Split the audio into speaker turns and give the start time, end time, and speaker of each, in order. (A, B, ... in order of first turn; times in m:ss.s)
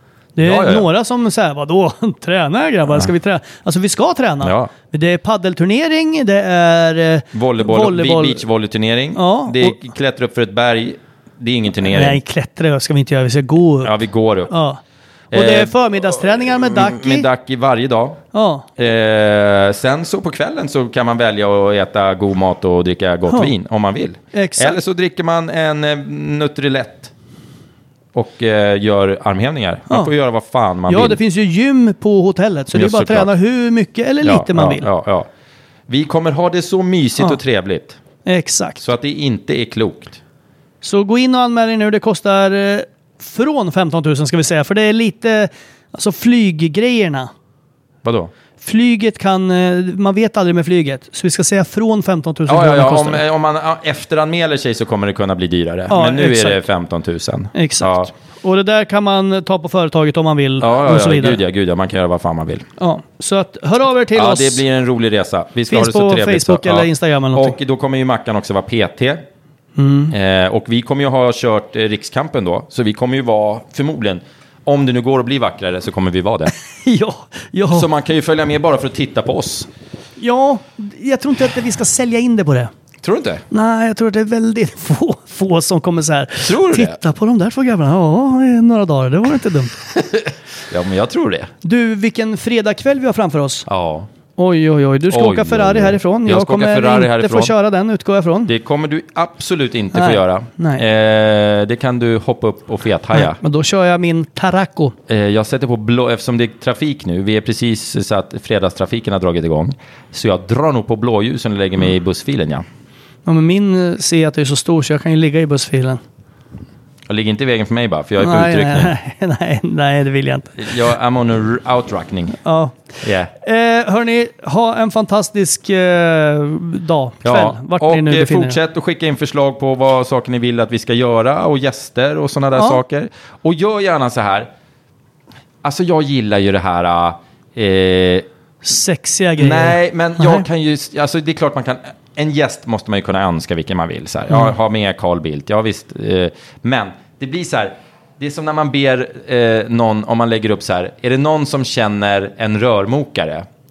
0:00.4-0:08.4 A
0:00.4-0:00.9 B
0:04.4-0:04.7 B
0:07.3-0:12.2 B
0:09.1-0:09.8 A
0:11.8-0:14.0 A
0:13.8-0:14.5 B
0:14.5-0:14.8 A
0:15.3-0:15.7 B
0:15.3-0:17.3 A
0:16.4-0:18.2 B
0:18.3-0:18.7 A
0:18.8-0:27.1 B
0:24.3-0:24.8 A
0:28.1-0:31.2 B
0:30.9-0:34.9 A
0:32.7-0:33.3 B
0:34.2-0:35.3 B
0:35.9-0:38.0 B
0:38.2-0:38.8 A
0:38.8-0:40.2 B
0:40.8-0:47.3 A
0:48.0-0:48.3 B
0:48.6-0:53.2 A
0:52.5-0:58.1 B
0:55.9-0:56.6 A
0:57.6-1:01.4 A
1:00.6-1:02.7 B
1:02.8-1:04.6 A
1:04.2-1:09.2 B
1:05.7-1:07.6 A
1:09.8-1:10.1 A
1:10.1-1:16.5 B
1:16.7-1:17.9 A
1:17.7-1:19.7 B
1:20.2-1:22.7 A
1:23.0-1:23.4 B
1:23.5-1:29.8 A
1:26.4-1:27.0 B
1:30.1-1:31.5 B
1:31.6-1:33.7 A
1:33.7-1:34.1 B
1:34.4-1:38.5 A
1:35.1-1:37.5 B
1:38.5-1:43.4 B
1:39.9-1:40.8 A
1:43.1-1:45.0 A
1:45.1-1:52.7 B
1:53.3-1:56.0 A
1:57.1-1:58.9 B
1:58.2-2:00.6 A
2:00.6-2:02.4 B
2:02.4-2:02.8 A
2:03.0-2:03.3 B
2:03.4-2:08.6 A
2:07.2-2:14.5 B
2:12.6-2:12.8 A
2:15.6-2:18.3 B
2:18.6-2:20.5 A
2:19.4-2:33.5 B